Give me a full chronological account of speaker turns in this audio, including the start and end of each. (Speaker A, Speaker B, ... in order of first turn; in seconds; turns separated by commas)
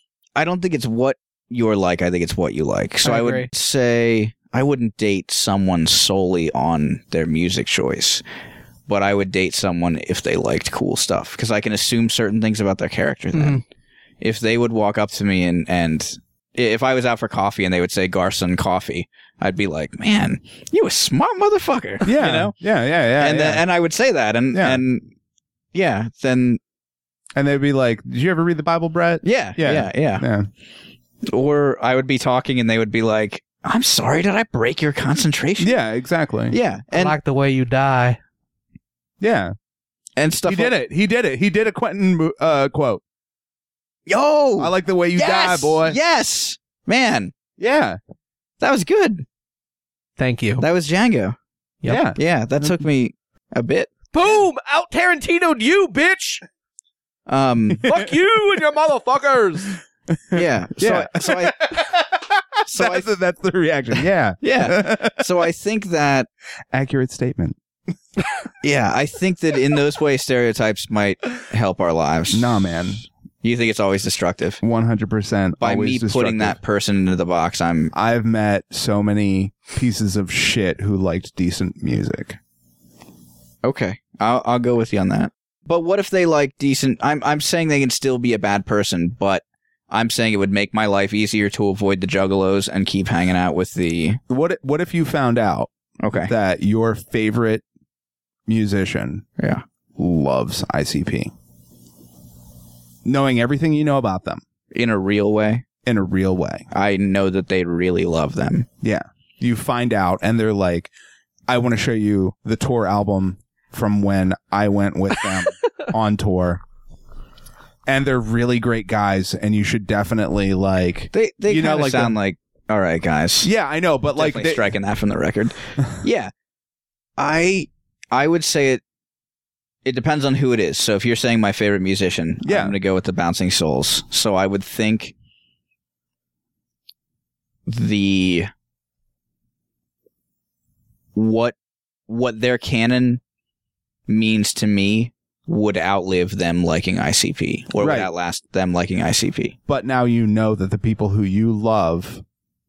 Speaker A: 0.3-8.2, Speaker B: 3.0-3.5, Speaker A: 8.9-13.6, Speaker B: 13.3-13.6, Speaker A: 14.2-22.5, Speaker C: 22.0-23.6, Speaker A: 23.2-25.1, Speaker C: 24.5-24.8, Speaker A: 25.7-26.6, Speaker C: 27.4-30.5, Speaker A: 29.2-30.2, Speaker A: 31.2-35.7, Speaker C: 35.6-36.5, Speaker A: 36.5-37.1, Speaker B: 36.9-38.2, Speaker C: 39.2-39.5, Speaker A: 40.2-40.7, Speaker C: 40.5-43.0, Speaker A: 44.1-47.3, Speaker C: 44.6-46.0, Speaker C: 47.6-48.0, Speaker A: 48.6-49.2, Speaker B: 50.2-50.6, Speaker A: 50.6-51.4, Speaker C: 51.8-52.7, Speaker A: 52.1-53.9, Speaker B: 54.1-56.4, Speaker A: 57.3-57.9, Speaker B: 57.8-59.8, Speaker C: 60.1-65.2, Speaker A: 60.3-61.8, Speaker A: 62.6-63.0, Speaker A: 64.4-66.3, Speaker C: 66.7-67.6, Speaker A: 68.6-72.8, Speaker C: 72.3-73.0, Speaker A: 73.4-74.6, Speaker C: 74.6-76.6, Speaker A: 75.6-77.9, Speaker C: 77.9-82.4, Speaker A: 83.6-94.2, Speaker C: 94.3-95.7, Speaker A: 96.0-96.3, Speaker C: 96.3-97.6, Speaker C: 98.5-99.2, Speaker A: 99.4-99.6, Speaker C: 100.0-101.3, Speaker C: 103.0-104.4, Speaker A: 104.7-105.6, Speaker C: 105.8-106.7, Speaker A: 106.7-108.7, Speaker C: 108.8-110.9, Speaker C: 111.5-116.6, Speaker C: 117.8-122.2, Speaker A: 121.1-123.5, Speaker C: 123.4-124.6, Speaker A: 124.1-126.3, Speaker A: 127.2-128.8, Speaker A: 129.8-135.1, Speaker C: 132.4-132.8, Speaker A: 137.7-138.5, Speaker A: 141.1-141.5, Speaker A: 142.1-143.2, Speaker A: 144.1-149.5, Speaker C: 147.8-148.1, Speaker C: 149.7-152.2